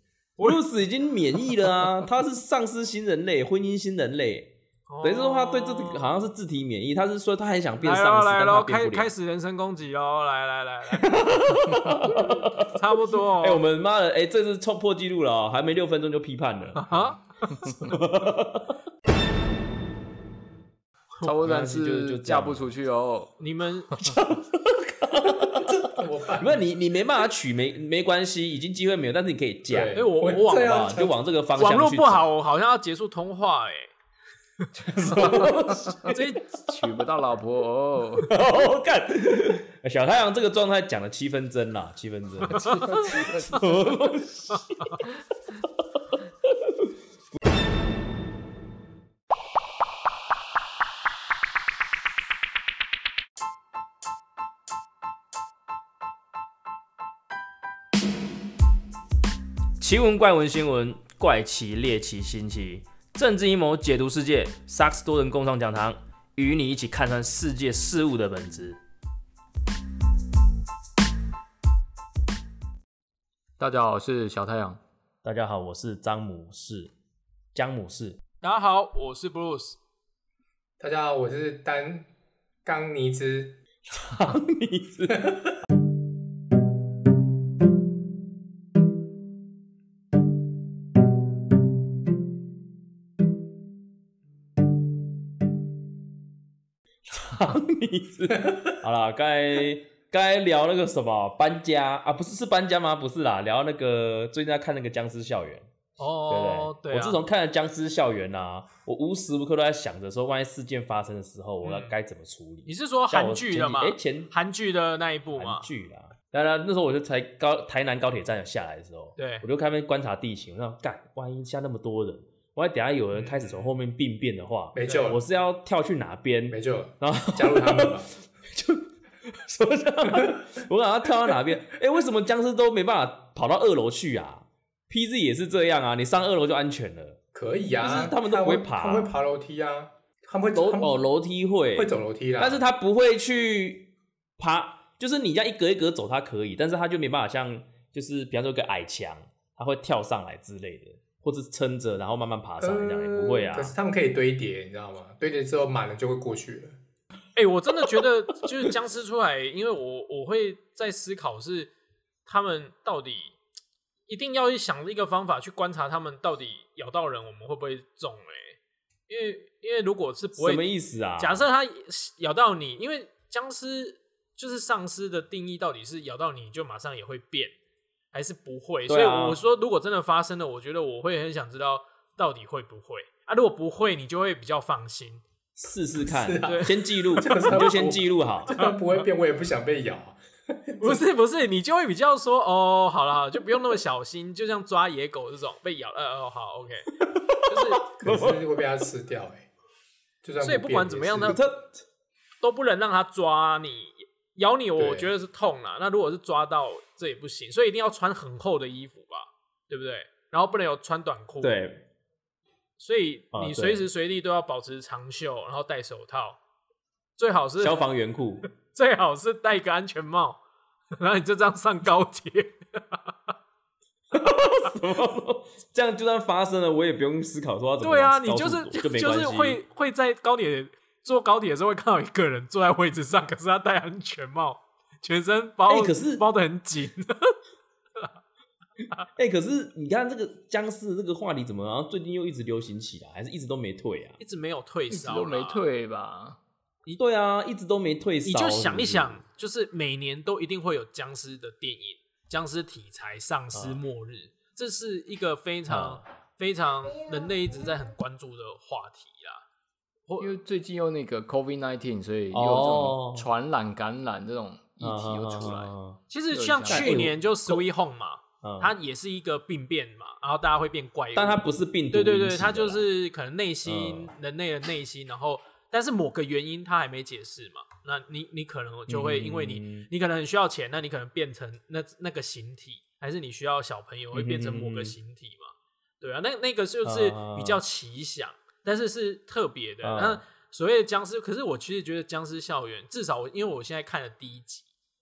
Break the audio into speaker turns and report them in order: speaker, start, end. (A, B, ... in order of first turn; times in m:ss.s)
0:00.4-0:09.1 A
0:04.9-0:06.1 B
0:07.8-0:11.1 B
0:10.9-0:16.8 A
0:12.8-0:13.6 B
0:16.8-0:17.9 B
0:17.7-0:18.7 A
0:21.2-0:23.3 C
0:21.4-0:22.7 A
0:23.4-0:23.9 B
0:24.0-0:32.3 A
0:25.6-0:26.6 D
0:29.7-0:31.2 D
0:29.9-0:30.9 B
0:31.6-0:33.9 B
0:34.8-0:36.1 A
0:35.0-0:36.1 C
0:36.0-0:36.7 B
0:36.7-0:38.3 C
0:38.2-0:45.1 A
0:42.5-0:43.1 B
0:42.7-0:43.6 C
0:44.5-0:44.9 B
0:59.8-1:08.8 A
1:13.6-1:14.8 C
1:15.2-1:16.9 A
1:17.5-1:18.2 A
1:18.4-1:19.8 B
1:20.8-1:22.1 D
1:22.6-1:23.6 D
1:23.9-1:25.3 A
1:37.1-1:45.7 A
1:46.0-1:47.2 B
1:46.3-1:54.3 A
1:51.6-1:51.9 B
1:52.6-1:55.6 B
1:55.4-2:17.2 A
1:59.2-1:59.4 B
2:04.7-2:05.2 D
2:04.8-2:05.1 B
2:06.5-2:08.1 D
2:17.3-2:21.0 D
2:17.8-2:19.1 A
2:20.5-2:33.7 A
2:21.7-2:22.6 D
2:32.6-2:36.7 D
2:37.4-2:41.7 B
2:42.2-2:43.3 B
2:44.1-2:48.6 B
2:49.1-2:50.6 B
2:50.4-2:51.4 A
2:51.2-2:57.5 B
2:58.1-3:05.2 B
2:58.9-2:59.4 A
3:05.6-3:08.5 A
3:06.0-3:11.0 D
3:06.4-3:07.6 B
3:08.5-3:08.8 B
3:10.8-3:16.9 B
3:17.0-3:18.6 A
3:17.5-3:17.8 B
3:18.0-3:19.4 D
3:20.2-3:21.4 D
3:20.4-3:21.4 B
3:21.3-3:21.7 A
3:22.4-3:31.6 B
3:24.8-3:25.0 A
3:31.4-3:31.8 A
3:32.8-3:36.4 B
3:33.3-3:33.8 A
3:37.2-3:37.8 B
3:37.6-3:38.5 A
3:38.6-3:40.4 B
3:41.0-3:43.0 B
3:44.1-3:49.6 A
3:47.8-3:57.3 B
3:55.7-3:56.2 A
3:59.2-4:04.2 A
4:04.2-4:05.6 B
4:04.9-4:06.4 C
4:07.0-4:09.2 A
4:08.2-4:19.4 B
4:15.7-4:16.0 A
4:20.1-4:20.3 B
4:20.2-4:25.7 C
4:22.3-4:23.3 A
4:24.8-4:26.0 A
4:26.1-4:54.7 B
4:26.3-4:27.1 C
4:26.6-4:27.6 A
4:28.4-4:28.7 A
4:31.2-4:32.9 A
4:33.6-4:34.1 A
4:38.9-4:39.9 A
4:44.1-4:44.9 A
4:46.8-4:47.6 A
4:49.8-4:50.2 A